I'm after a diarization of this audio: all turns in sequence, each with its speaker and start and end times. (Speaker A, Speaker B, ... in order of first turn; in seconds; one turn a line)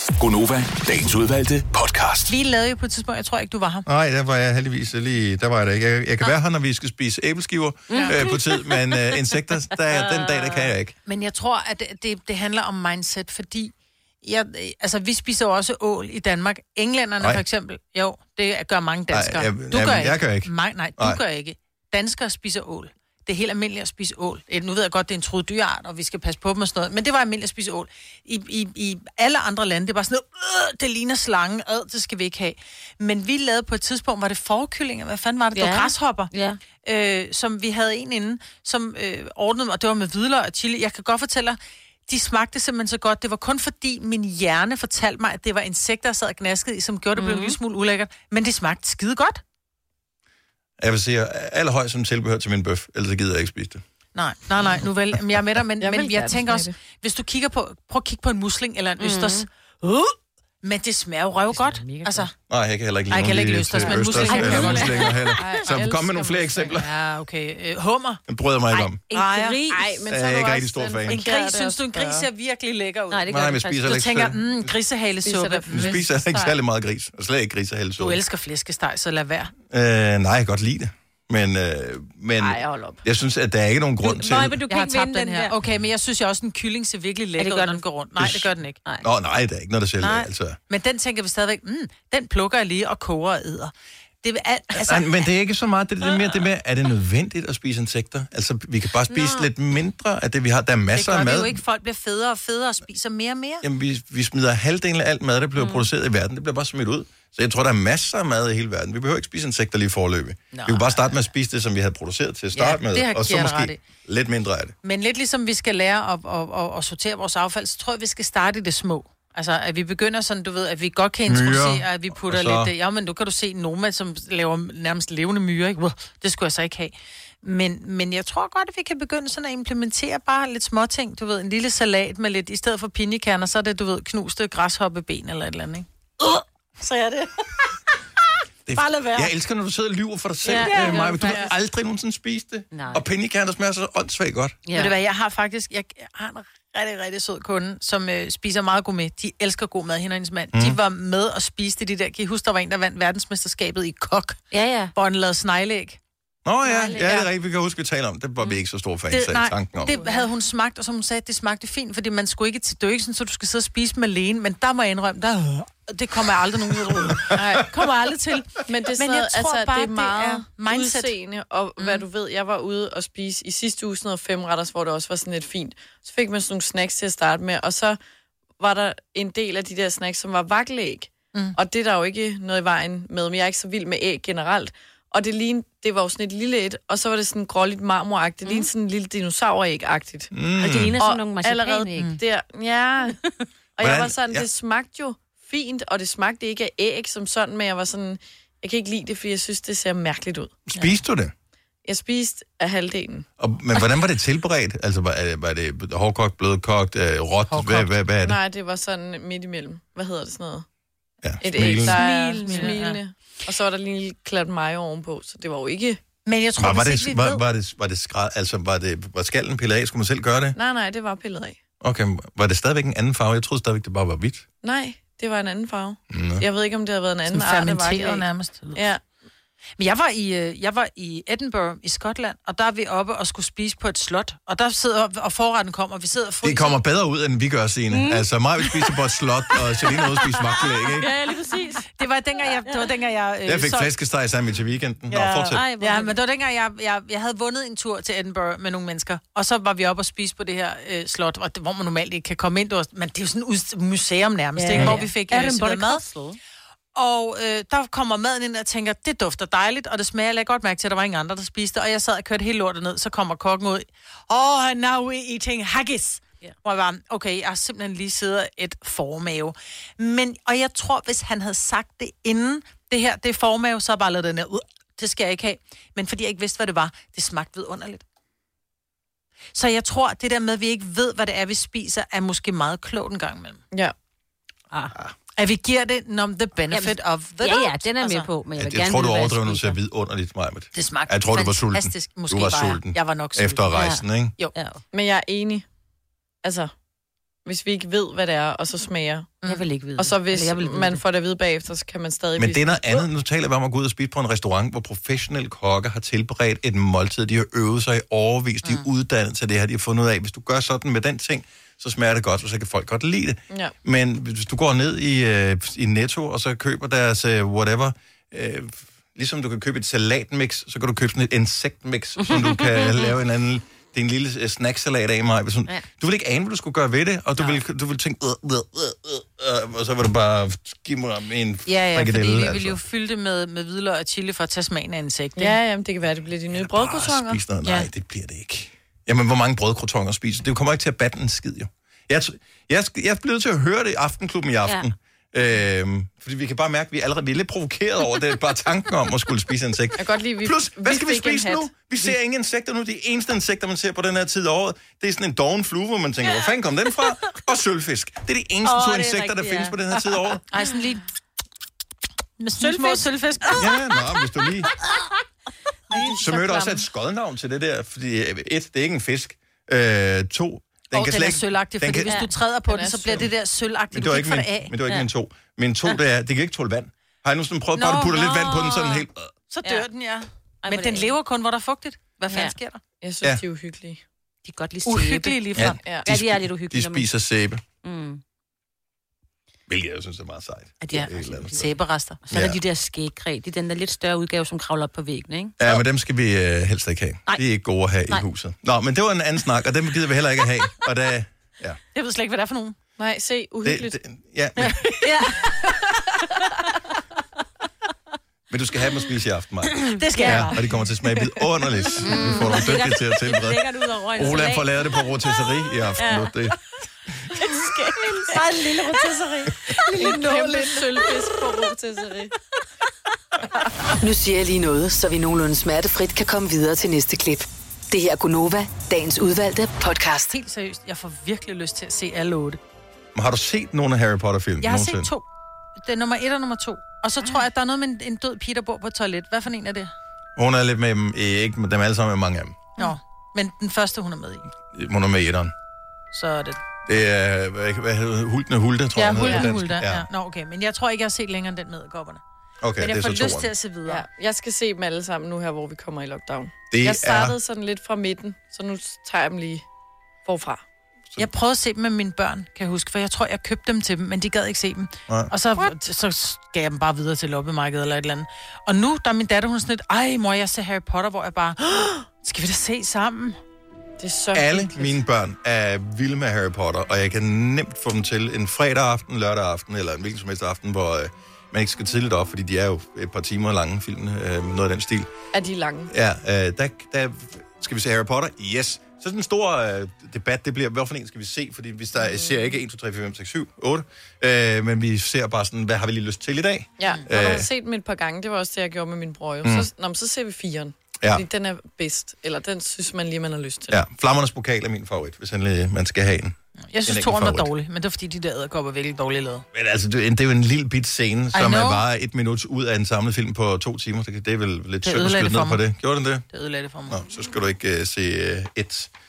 Speaker A: 0.2-2.4
Speaker B: 2.3-3.9
Speaker C: 3.9-10.9
Speaker D: 7.9-9.0
Speaker D: 9.7-10.7
Speaker B: 11.1-36.3
Speaker C: 19.1-21.2
Speaker D: 35.5-36.6
Speaker B: 36.8-49.4
Speaker D: 47.2-47.6
Speaker C: 50.8-53.8
Speaker B: 54.1-62.3
Speaker E: 55.8-56.7
Speaker D: 59.0-59.5
Speaker D: 61.5-62.3
Speaker C: 62.5-66.9
Speaker B: 63.1-65.2
Speaker E: 63.8-66.8
Speaker D: 64.2-65.1
Speaker B: 66.7-68.2
Speaker C: 68.3-69.0
Speaker D: 68.7-69.9
Speaker B: 69.1-69.6
Speaker E: 69.7-72.3
Speaker C: 70.1-71.2
Speaker B: 71.1-76.5
Speaker D: 73.1-74.0
Speaker C: 73.3-74.7
Speaker E: 75.2-76.0
Speaker C: 75.7-78.2
Speaker B: 78.0-79.5
Speaker C: 79.7-84.6
Speaker E: 82.4-83.0
Speaker D: 84.0-85.5
Speaker B: 84.7-88.8
Speaker D: 87.4-87.8
Speaker C: 88.2-90.6
Speaker B: 90.0-93.7
Speaker B: 94.2-95.1
Speaker C: 94.8-101.6
Speaker D: 99.1-99.5
Speaker B: 100.9-103.6
Speaker C: 103.6-114.7
Speaker D: 105.6-105.9
Speaker B: 110.5-111.1
Speaker B: 112.5-113.8
Speaker B: 114.8-137.5
Speaker C: 121.3-122.7
Speaker C: 138.7-144.6
Speaker B: 138.7-139.3
Speaker D: 140.4-141.5
Speaker B: 140.5-141.4
Speaker D: 142.7-143.0
Speaker D: 144.7-144.9
Speaker B: 144.8-154.4
Speaker D: 154.5-154.9
Speaker B: 154.9-156.0
Speaker C: 156.4-159.9
Speaker D: 156.8-157.1
Speaker B: 159.1-171.1
Speaker E: 167.3-167.7
Speaker E: 168.7-178.0
Speaker E: 178.6-190.3
Speaker C: 190.3-191.0
Speaker D: 190.6-192.2
Speaker E: 191.0-193.2
Speaker E: 193.8-200.6
Speaker C: 193.8-194.5
Speaker C: 200.7-201.3
Speaker E: 201.8-203.3
Speaker C: 203.4-208.4
Speaker B: 207.5-207.9
Speaker E: 208.2-210.7
Speaker C: 211.2-212.0
Speaker E: 211.4-216.0
Speaker B: 211.8-213.0
Speaker D: 212.0-212.8
Speaker B: 216.3-217.4
Speaker C: 216.6-220.6
Speaker E: 220.5-221.6
Speaker C: 221.8-224.5
Speaker E: 224.6-229.0
Speaker C: 226.1-226.4
Speaker B: 227.3-228.8
Speaker B: 229.8-236.8
Speaker C: 236.4-241.1
Speaker D: 237.9-238.2
Speaker D: 241.0-241.9
Speaker B: 241.9-243.9
Speaker C: 243.5-245.6
Speaker B: 245.1-256.0
Speaker D: 245.3-246.2
Speaker D: 254.6-256.4
Speaker B: 257.0-278.0
Speaker B: 279.5-283.6
Speaker B: 285.4-288.3
Speaker D: 286.7-289.8
Speaker C: 288.6-294.3
Speaker B: 290.7-293.8
Speaker D: 293.8-294.0
Speaker D: 294.6-294.8
Speaker E: 294.9-295.7
Speaker E: 296.4-296.8
Speaker E: 297.4-299.3
Speaker D: 299.5-301.0
Speaker E: 300.0-302.9
Speaker C: 302.4-332.8
Speaker D: 322.2-323.1
Speaker B: 331.7-335.6
Speaker E: 335.4-337.4
Speaker C: 336.5-360.4
Speaker E: 350.0-351.7
Speaker D: 358.6-359.8
Speaker B: 360.5-361.0
Speaker B: 362.4-363.6
Speaker D: 362.6-363.6
Speaker C: 363.6-364.7
Speaker B: 365.9-366.8
Speaker C: 366.2-372.2
Speaker B: 370.9-374.7
Speaker E: 372.7-373.3
Speaker C: 373.9-379.3
Speaker B: 377.8-382.8
Speaker D: 380.6-381.1
Speaker E: 383.0-384.0
Speaker D: 384.4-387.1
Speaker B: 384.9-385.8
Speaker C: 385.6-387.6
Speaker D: 387.8-388.2
Speaker C: 389.7-391.7
Speaker D: 390.9-391.7
Speaker B: 390.9-392.2
Speaker D: 392.2-395.6
Speaker C: 392.3-392.6
Speaker C: 395.6-401.8
Speaker B: 401.9-402.8
Speaker E: 403.0-404.0
Speaker C: 403.6-404.8
Speaker D: 405.0-405.5
Speaker C: 408.5-413.6
Speaker B: 410.0-410.6
Speaker D: 410.2-410.5
Speaker D: 412.0-416.4
Speaker B: 412.1-412.6
Speaker C: 414.1-416.6
Speaker D: 417.4-418.4
Speaker B: 418.2-420.8
Speaker D: 419.9-420.2
Speaker E: 420.0-422.3
Speaker F: 424.0-430.3
Speaker B: 430.3-432.6
Speaker C: 433.1-435.1
Speaker B: 434.6-435.3
Speaker B: 435.8-439.9
Speaker C: 440.4-442.6
Speaker B: 442.8-444.5
Speaker C: 444.7-445.5
Speaker B: 446.1-446.6
Speaker C: 446.9-450.1
Speaker B: 448.9-452.2
Speaker E: 449.2-449.5
Speaker C: 452.6-453.5
Speaker B: 452.8-454.1
Speaker E: 453.9-459.7
Speaker C: 456.7-457.4
Speaker E: 460.2-460.6
Speaker B: 461.2-473.4
Speaker E: 474.0-475.0
Speaker C: 474.3-485.1
Speaker E: 485.3-485.9
Speaker C: 485.9-497.5
Speaker E: 496.8-503.8
Speaker C: 503.7-507.5
Speaker B: 506.7-509.4
Speaker C: 509.5-516.2
Speaker B: 511.3-511.8
Speaker B: 514.8-515.6
Speaker B: 516.3-517.0
Speaker C: 516.9-518.9